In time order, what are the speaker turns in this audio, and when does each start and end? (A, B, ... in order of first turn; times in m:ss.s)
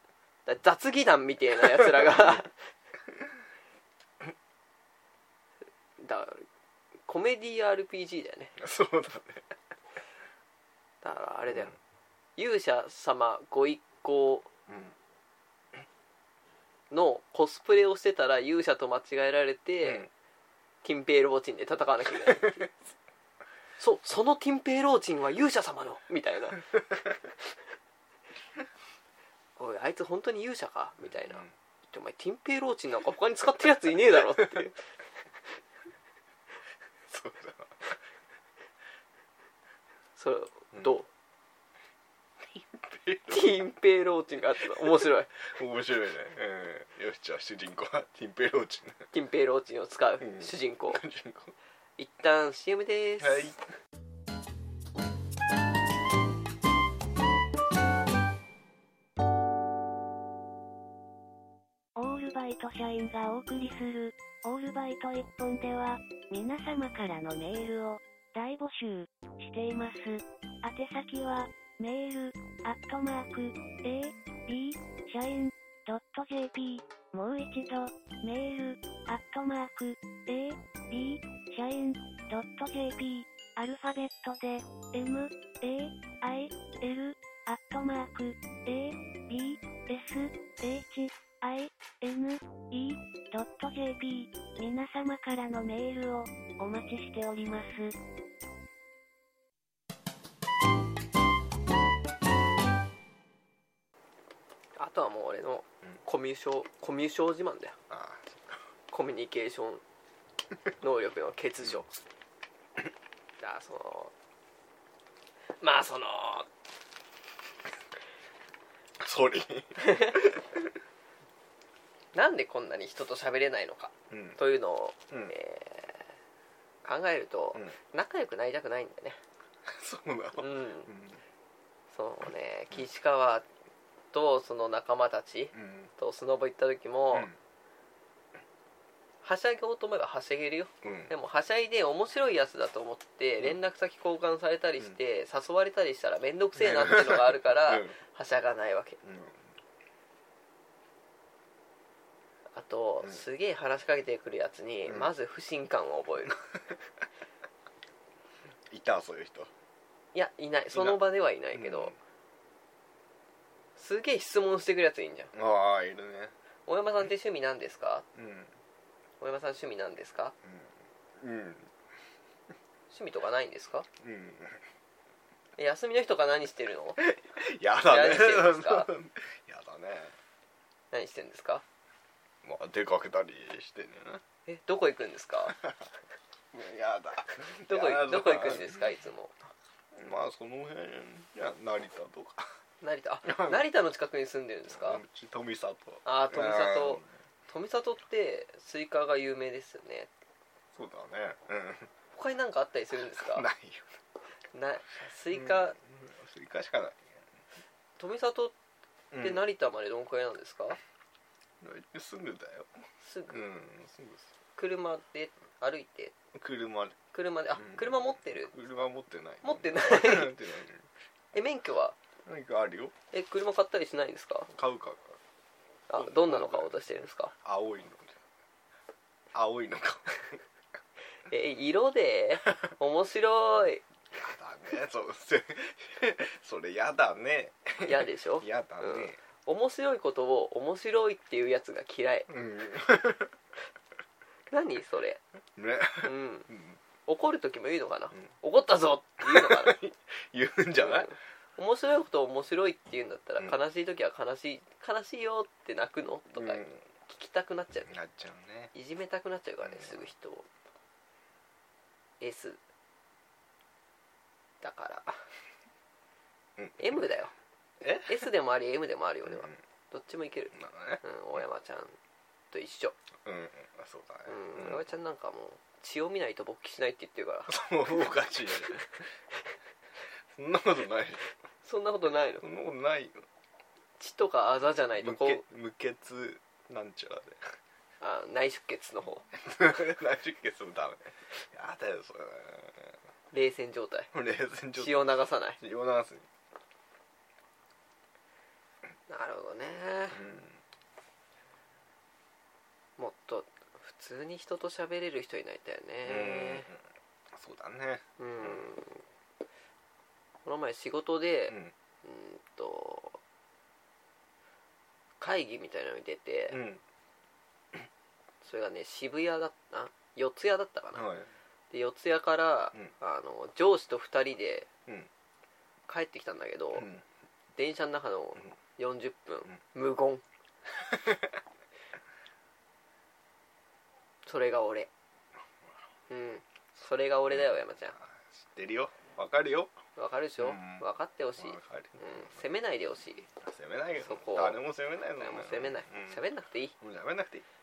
0:00.4-0:02.5 A
0:01.6-0:02.4 B
0:06.0-0:06.4 A
0:07.1-0:08.5 A
0:08.6-0:09.5 B
0:11.0-0:11.7 A
0:12.4-0:14.5 A
0:14.7-0:14.9 B
0:16.9-0:20.1 A
0:19.8-0:20.1 B
0:20.8-0:22.7 A
0:22.2-0:22.6 B
0:23.8-0:26.8 A
0:29.6-0:34.8 A
0:31.0-0:31.5 B
0:37.1-0:37.8 B
0:40.2-0:41.1 A
0:42.5-0:43.6 B
0:43.3-0:45.3 A
0:45.4-0:49.1 B
0:49.1-0:51.0 A
0:50.2-0:51.5 B
0:52.0-0:53.5 A
0:53.2-0:53.6 B
1:02.0-1:37.9 C
1:44.8-1:47.7 A
1:47.9-1:48.6 B
1:48.9-1:49.8 A
1:50.8-1:51.9 A
1:53.4-1:54.1 A
1:55.6-1:56.5 A
1:59.0-2:00.8 B
1:59.8-2:00.2 A
2:02.1-2:06.0 A
2:04.1-2:04.4 B
2:06.8-2:09.2 A
2:09.6-2:11.2 B
2:10.4-2:10.9 A
2:11.9-2:13.4 A
2:14.1-2:17.3 A
2:15.5-2:15.9 B
2:19.2-2:29.0 A
2:20.8-2:21.1 B
2:26.6-2:27.9 B
2:29.0-2:29.4 B
2:32.5-2:36.4 A
2:38.7-2:39.5 B
2:40.1-2:42.0 A
2:40.7-2:41.0 B
2:41.5-2:41.9 B
2:43.8-2:45.3 A
2:45.3-2:46.3 B
2:46.7-2:48.0 A
2:48.1-2:48.5 B
2:49.2-2:50.3 A
2:50.4-2:51.7 B
2:52.9-2:53.9 A
2:54.0-2:54.6 B
2:55.6-2:57.0 A
2:57.0-3:00.1 B
2:57.8-2:58.9 A
3:00.9-3:01.6 A
3:02.4-3:04.2 B
3:04.4-3:05.6 A
3:05.5-3:05.8 B
3:06.5-3:08.8 B
3:07.6-3:09.3 A
3:09.9-3:12.5 B
3:12.8-3:15.0 A
3:13.2-3:13.6 B
3:14.7-3:17.1 B
3:16.0-3:20.1 A
3:20.7-3:21.9 B
3:22.1-3:23.5 A
3:23.1-3:23.9 B
3:24.5-3:25.7 A
3:25.3-3:27.2 B
3:28.0-3:28.5 A
3:29.1-3:29.4 B
3:29.2-3:30.8 A
3:31.6-3:32.7 B
3:33.0-3:33.4 A
3:33.3-3:34.3 B
3:34.6-3:36.1 A
3:36.3-3:37.0 B
3:37.1-3:38.5 A
3:37.5-3:40.9 B
3:39.4-3:40.4 A
3:41.3-3:42.0 A
3:42.2-3:42.9 B
3:43.1-3:44.5 A
3:44.5-3:45.2 B
3:45.9-3:47.3 A
3:45.9-3:46.8 B
3:47.3-3:48.2 B
3:49.3-3:50.4 B
3:51.3-3:53.8 A
3:54.1-3:59.2 B
3:57.8-4:02.3 A
4:02.3-4:03.3 B
4:04.5-4:05.2 A
4:05.6-4:06.8 B
4:06.0-4:06.5 A
4:07.0-4:09.8 A
4:09.2-4:11.1 B
4:10.8-4:17.9 A
4:16.4-4:16.8 B
4:17.9-4:18.7 B
4:18.7-4:20.5 A
4:19.6-4:20.1 B
4:22.2-4:22.6 A
4:24.6-4:25.2 A
4:26.6-4:26.9 B
4:26.8-4:27.3 A
4:27.8-4:28.2 B
4:28.0-4:31.9 A
4:29.2-4:29.6 B
4:30.5-4:31.0 B
4:32.5-4:33.0 A
4:33.2-4:34.8 B
4:34.3-4:37.5 A
4:37.5-4:38.8 B
4:40.3-4:41.3 B
4:41.6-4:42.4 A
4:42.4-4:43.2 B
4:44.0-4:45.4 A
4:45.0-4:47.5 B
4:48.0-4:49.2 A
4:49.4-4:52.9 B
4:53.3-4:54.1 A
4:54.1-4:56.3 B
4:54.8-4:55.6 A
4:59.1-5:00.2 A
5:00.1-5:00.6 B
5:03.0-5:06.7 A
5:06.0-5:06.8 B
5:07.3-5:08.6 B
5:08.2-5:09.0 A
5:10.4-5:13.2 A
5:15.2-5:16.6 A
5:16.5-5:16.8 B
5:18.4-5:21.0 A
5:20.9-5:21.3 B
5:21.7-5:24.7 A
5:25.9-5:26.9 A
5:26.7-5:27.0 B
5:27.6-5:30.2 A
5:30.8-5:31.3 B
5:34.2-5:34.9 A
5:36.1-5:38.0 A
5:38.0-5:39.8 B
5:40.0-5:43.3 A
5:40.4-5:40.8 B
5:41.4-5:42.4 B
5:43.4-5:46.2 B
5:44.0-5:44.6 A
5:45.2-5:46.7 A
5:46.8-5:47.4 B